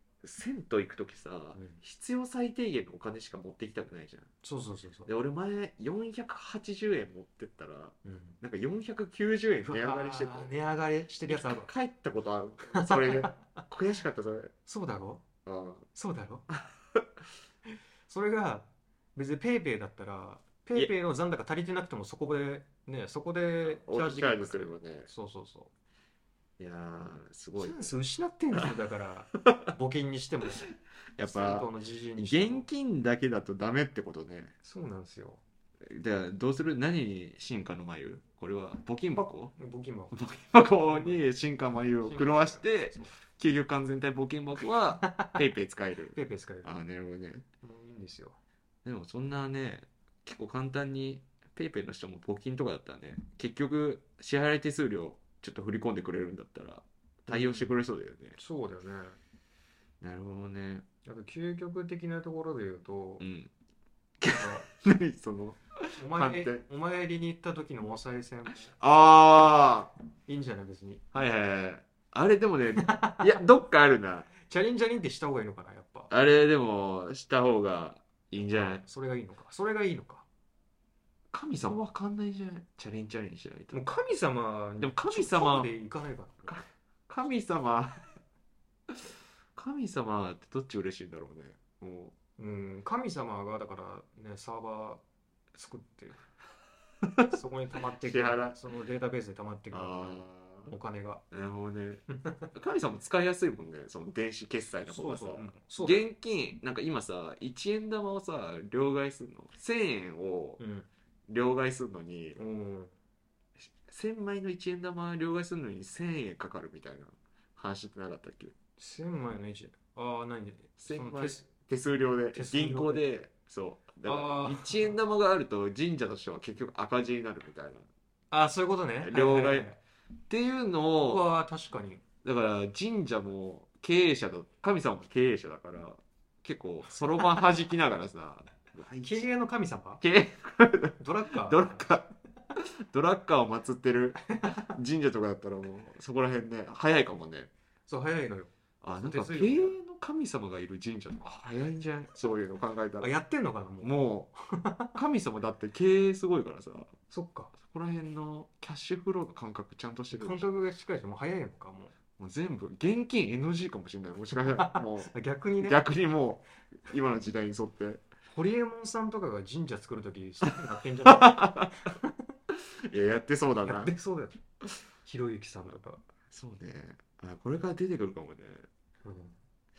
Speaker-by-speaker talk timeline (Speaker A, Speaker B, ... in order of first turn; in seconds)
Speaker A: 0.2-4.3, 5.1-10.5, 11.3-14.5, 15.4-15.9, 16.5-17.1, 23.6-25.1, 26.6-27.9, 31.2-34.5, 35.9-39.5, 40.1-47.5, 48.9-58.4, 60.0-60.9, 63.2-63.5, 64.2-66.6, 68.7-69.9, 71.1-74.3, 76.1-78.8, 81.3-83.8, 84.8-85.7, 86.5-88.1, 89.6-92.1, 98.0-98.6, 99.7-100.7, 101.3-110.6, 111.3-112.4, 113.7-118.5, 120.8-127.9, 129.0-129.7, 130.3-131.2, 132.2-139.2, 140.0-147.5, 148.8-153.1, 153.8-154.3, 154.9-156.9, 157.6-160.5, 162.2-168.0, 171.1-171.9, 172.5-173.9, 176.3-178.7
Speaker B: 1.5-1.8, 4.4-5.1, 8.1-8.4, 9.7-11.7, 12.7-13.4, 14.7-15.2, 15.9-16.5, 18.1-25.7, 27.6-30.7, 31.2-32.7, 34.6-35.4, 39.6-40.2, 40.9-41.2, 42.0-43.1, 45.0-45.4, 46.1-46.7, 47.6-48.4, 57.3-57.8, 58.4-59.2, 61.0-63.2, 64.2-64.7, 66.0-68.7, 70.3-71.0, 72.8-73.2, 74.4-76.1, 78.4-80.2, 83.7-86.6, 92.4-95.0, 95.5-96.3, 97.3-101.2, 104.9-106.0, 110.6-110.9, 112.4-112.9, 118.8-121.4, 122.3-123.0, 124.0-125.0, 128.3-129.8, 131.1-132.0, 139.0-140.0, 141.0-141.9, 144.3-144.7, 147.9-149.8, 153.0-153.9, 157.1-157.5, 160.1-161.9, 164.4-165.8, 168.3-172.2, 173.7-174.4, 175.1-176.0, 179.0-179.4